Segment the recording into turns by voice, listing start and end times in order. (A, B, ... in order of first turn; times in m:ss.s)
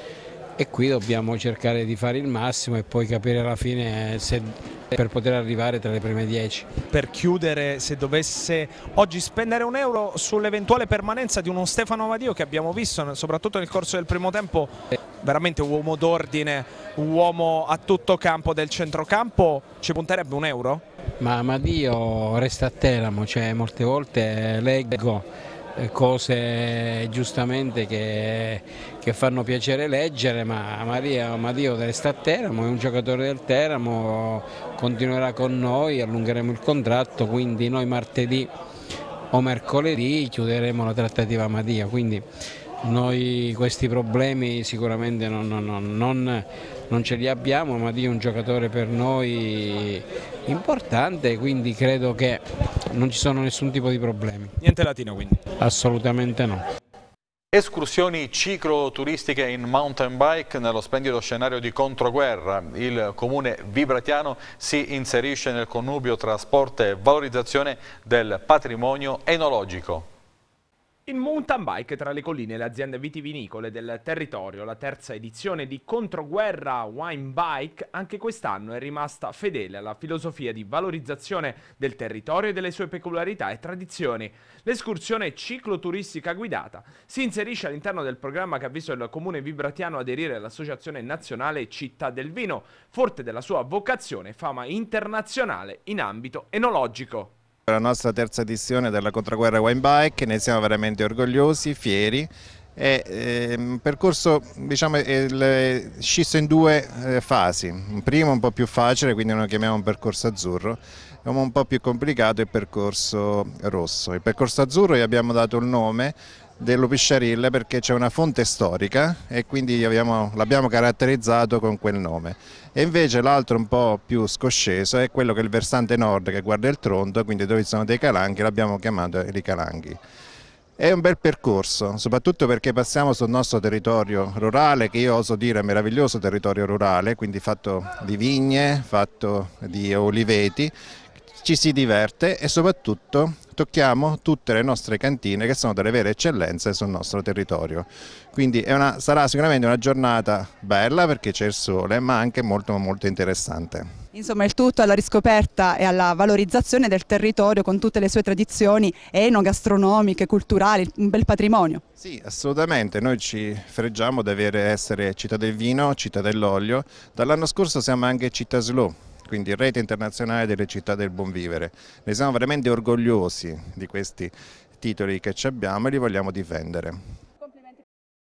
0:00.6-0:06.7 A
0:06.9-0:20.8 B
0:21.2-0:38.5 A
0:39.3-0:42.3 A
0:42.8-0:54.6 A
0:54.6-0:55.4 B
0:55.6-0:56.6 A
0:57.5-1:10.1 C
1:11.1-1:37.3 D
1:37.7-2:10.0 E
2:10.8-2:20.7 E
2:21.4-2:33.9 E
2:34.1-2:41.8 F
2:42.0-2:57.0 E